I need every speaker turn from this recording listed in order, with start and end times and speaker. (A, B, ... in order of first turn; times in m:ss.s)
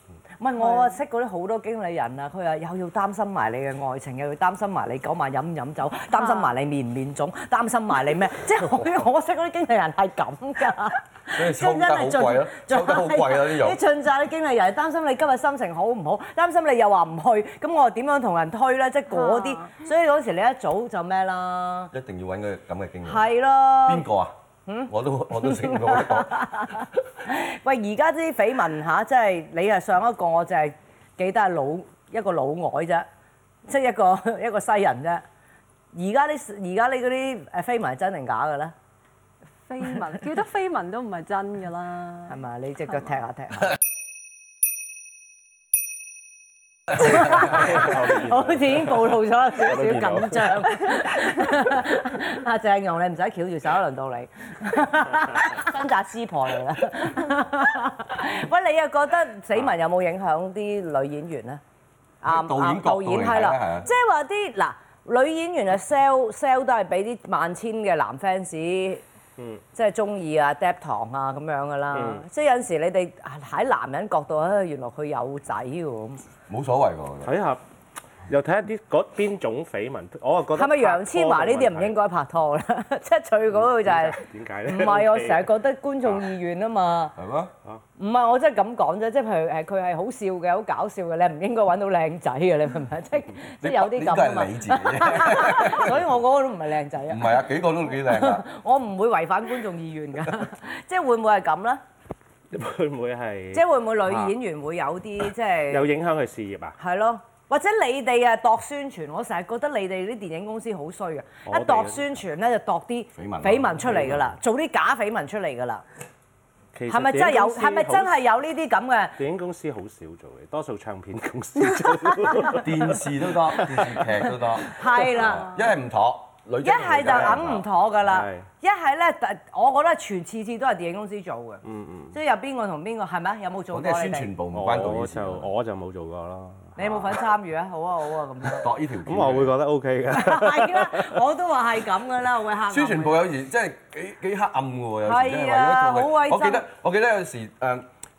0:00.4-0:21.9 A
0:00.6-0:01.0 B
0:06.1-0:06.5 B
0:11.3-0:13.8 C
0:19.1-0:19.8 B
0:21.9-0:23.3 C
0:23.0-0:24.0 A
0:23.8-0:24.3 C
0:24.7-0:33.1 A
0:24.9-0:26.5 C
0:33.7-0:35.2 A
0:35.9-0:38.7 A
0:39.7-0:42.4 B
0:42.3-0:43.8 A
0:47.0-1:01.6 A
0:47.1-0:50.6 D
1:02.2-1:09.0 A
1:02.2-1:03.9 C
1:09.7-1:16.2 A
1:11.9-1:12.2 D
1:16.5-1:17.3 C
1:17.2-1:17.6 D
1:18.3-1:22.0 D
1:20.5-1:27.1 A
1:23.5-1:25.5 D
1:27.2-1:27.5 C
1:28.0-1:41.8 A
1:33.6-1:36.0 C
1:37.1-1:38.4 C
1:42.5-1:44.3 D
1:43.5-1:45.9 A
1:45.7-1:46.8 D
1:46.8-1:55.8 A
1:51.4-1:52.1 D
1:53.2-1:54.2 C
1:56.7-1:58.2 D
1:56.9-1:59.2 A
1:59.2-2:04.0 D
2:02.6-2:07.6 C
2:04.8-2:05.5 A
2:06.6-2:14.3 A
2:07.1-2:08.4 D
2:11.6-2:12.2 D
2:13.7-2:15.5 C
2:14.5-2:17.2 D
2:16.8-2:18.7 A
2:18.6-2:19.5 C
2:19.0-2:21.1 D
2:20.1-2:23.2 A
2:22.7-2:27.9 C
2:25.0-2:26.6 A